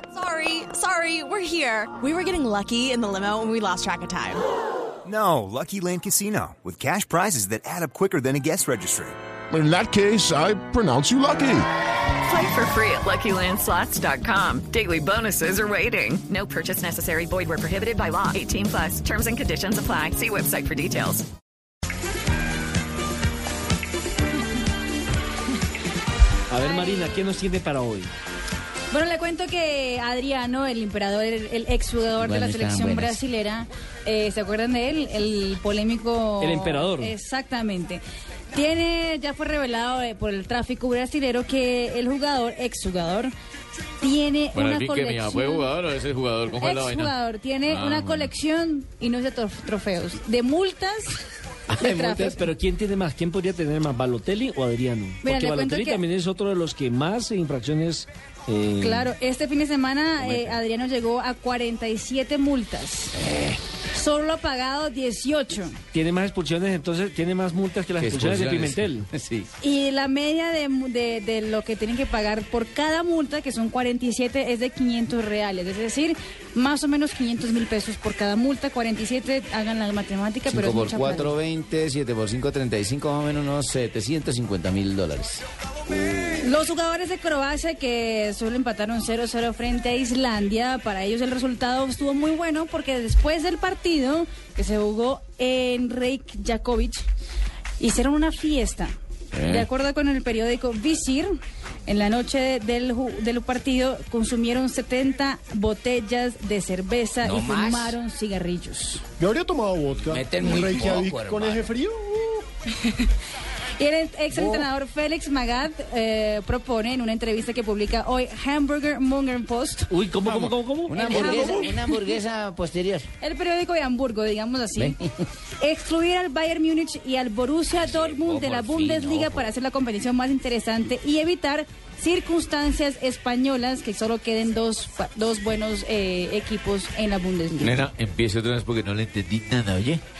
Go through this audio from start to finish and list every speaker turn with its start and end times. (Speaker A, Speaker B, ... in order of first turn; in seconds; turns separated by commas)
Speaker A: 0.1-4.4, Speaker B: 5.0-9.2, Speaker C: 9.5-11.7, Speaker D: 12.2-21.3, Speaker E: 26.5-28.1, Speaker F: 26.7-27.2, Speaker F: 28.9-38.0, Speaker G: 32.2-33.2, Speaker E: 36.4-37.2, Speaker F: 38.5-43.3, Speaker F: 44.0-45.7, Speaker H: 44.5-47.1, Speaker F: 46.6-51.2, Speaker H: 47.7-48.3, Speaker G: 51.7-52.2, Speaker F: 51.8-52.4, Speaker E: 51.9-59.1, Speaker F: 55.2-56.0, Speaker F: 58.8-63.2, Speaker G: 63.2-63.6, Speaker F: 63.9-65.8, Speaker E: 65.9-69.1, Speaker G: 68.1-69.5, Speaker F: 69.6-81.3, Speaker G: 80.5-86.4, Speaker F: 86.4-97.0, Speaker F: 97.8-101.3, Speaker H: 99.3-99.7, Speaker F: 101.9-109.0, Speaker G: 107.2-108.0, Speaker I: 109.2-112.4, Speaker G: 110.0-111.7, Speaker F: 113.8-119.9, Speaker E: 119.9-121.5, Speaker G: 120.2-123.1, Speaker F: 121.0-122.0, Speaker F: 123.2-125.0, Speaker G: 124.8-125.0, Speaker F: 125.6-137.9, Speaker G: 127.9-129.4, Speaker H: 137.6-140.0